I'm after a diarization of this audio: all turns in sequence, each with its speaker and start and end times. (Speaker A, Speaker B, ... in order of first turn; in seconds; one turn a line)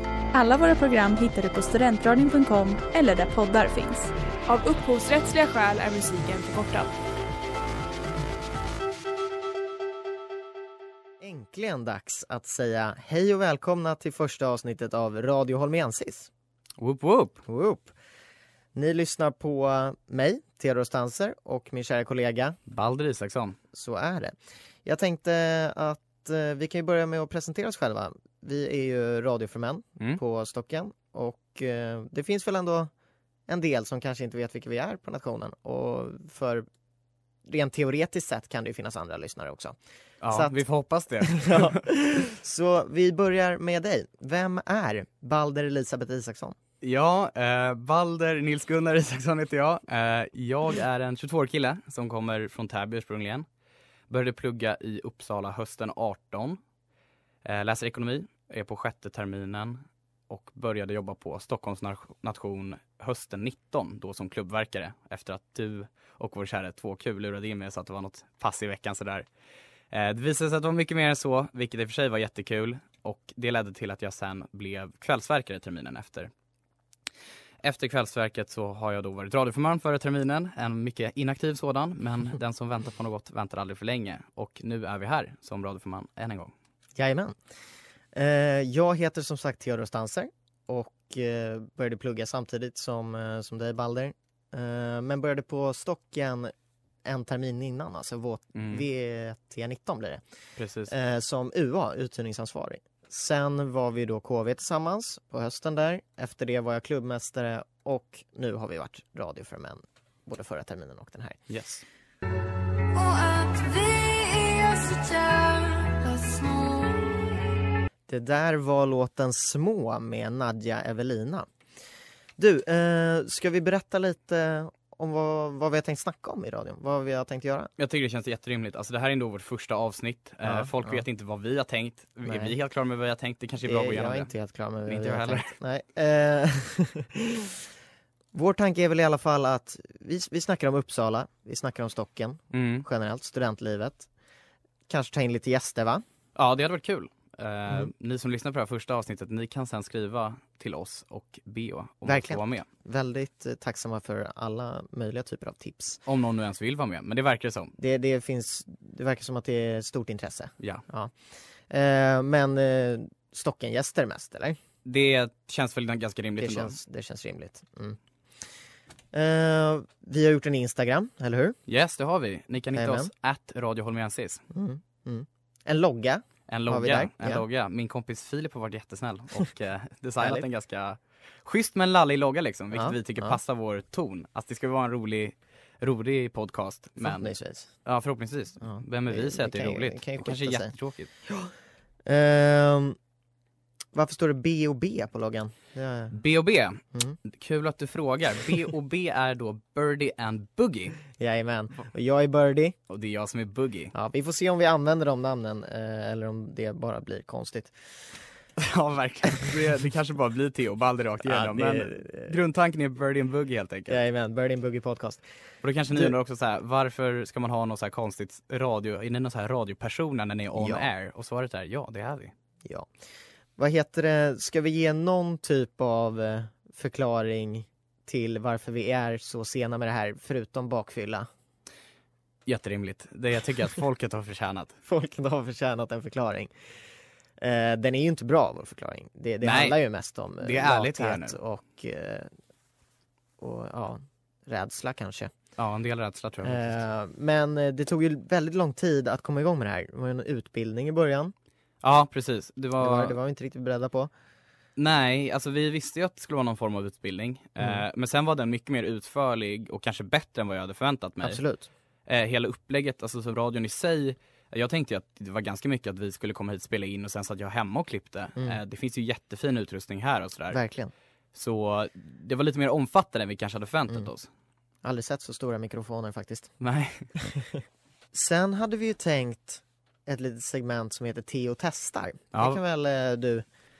Speaker A: 0.3-4.1
Speaker B: 4.5-6.9
Speaker C: 11.2-16.3
Speaker D: 16.8-17.4
Speaker C: 17.5-17.9
Speaker C: 18.7-22.6
Speaker D: 22.7-23.6
Speaker C: 23.7-32.9
Speaker C: 33.5-36.6
Speaker C: 37.4-39.8
Speaker D: 40.2-41.8
Speaker C: 40.3-40.6
Speaker C: 41.2-46.5
Speaker D: 46.8-53.5
Speaker D: 54.1-56.6
Speaker D: 57.4-69.3
Speaker D: 69.9-76.3
Speaker D: 77.6-86.5
Speaker C: 87.0-87.3
Speaker C: 88.1-96.5
Speaker C: 97.0-100.2
Speaker D: 98.5-98.8
Speaker D: 100.6-100.9
Speaker C: 100.9-111.4
Speaker D: 111.5-111.8
Speaker A: 112.9-117.4
Speaker C: 118.1-121.5
Speaker C: 122.4-127.7
Speaker D: 127.8-134.3
Speaker C: 130.4-131.0
Speaker C: 132.2-132.5
Speaker C: 133.6-137.5
Speaker D: 134.9-135.5
Speaker C: 138.3-144.1
Speaker D: 142.5-142.8
Speaker C: 144.9-146.0
Speaker D: 146.3-152.7
Speaker C: 152.0-156.0
Speaker D: 156.1-157.7
Speaker C: 157.8-164.6
Speaker D: 164.8-166.8
Speaker C: 166.4-168.4
Speaker C: 169.1-171.6
Speaker D: 171.7-174.4
Speaker C: 172.7-173.1
Speaker C: 174.5-177.4
Speaker D: 176.5-187.3
Speaker C: 182.7-183.4
Speaker C: 187.0-187.7
Speaker D: 187.8-191.1
Speaker C: 188.6-190.7
Speaker C: 191.2-191.5
Speaker C: 192.1-193.0
Speaker C: 193.9-196.2
Speaker D: 196.1-201.0
Speaker C: 196.9-197.2
Speaker C: 201.2-202.8
Speaker D: 202.9-203.9
Speaker C: 203.9-207.9
Speaker D: 208.6-214.0
Speaker C: 211.2-212.3
Speaker C: 213.9-215.2
Speaker D: 215.6-222.3
Speaker C: 220.5-220.9
Speaker C: 223.6-231.3
Speaker D: 232.4-234.7
Speaker C: 234.9-236.5
Speaker C: 237.4-242.3
Speaker D: 239.4-239.8
Speaker D: 240.4-241.4
Speaker C: 243.4-245.3
Speaker D: 245.6-246.8
Speaker C: 246.4-251.3
Speaker D: 251.8-253.1
Speaker C: 252.8-254.1
Speaker D: 254.8-261.4
Speaker C: 261.2-261.7
Speaker D: 262.1-270.6
Speaker C: 270.5-270.9
Speaker D: 271.3-274.3
Speaker C: 274.8-276.5
Speaker D: 276.6-277.1
Speaker C: 277.2-277.6
Speaker C: 278.1-283.4
Speaker D: 282.3-282.6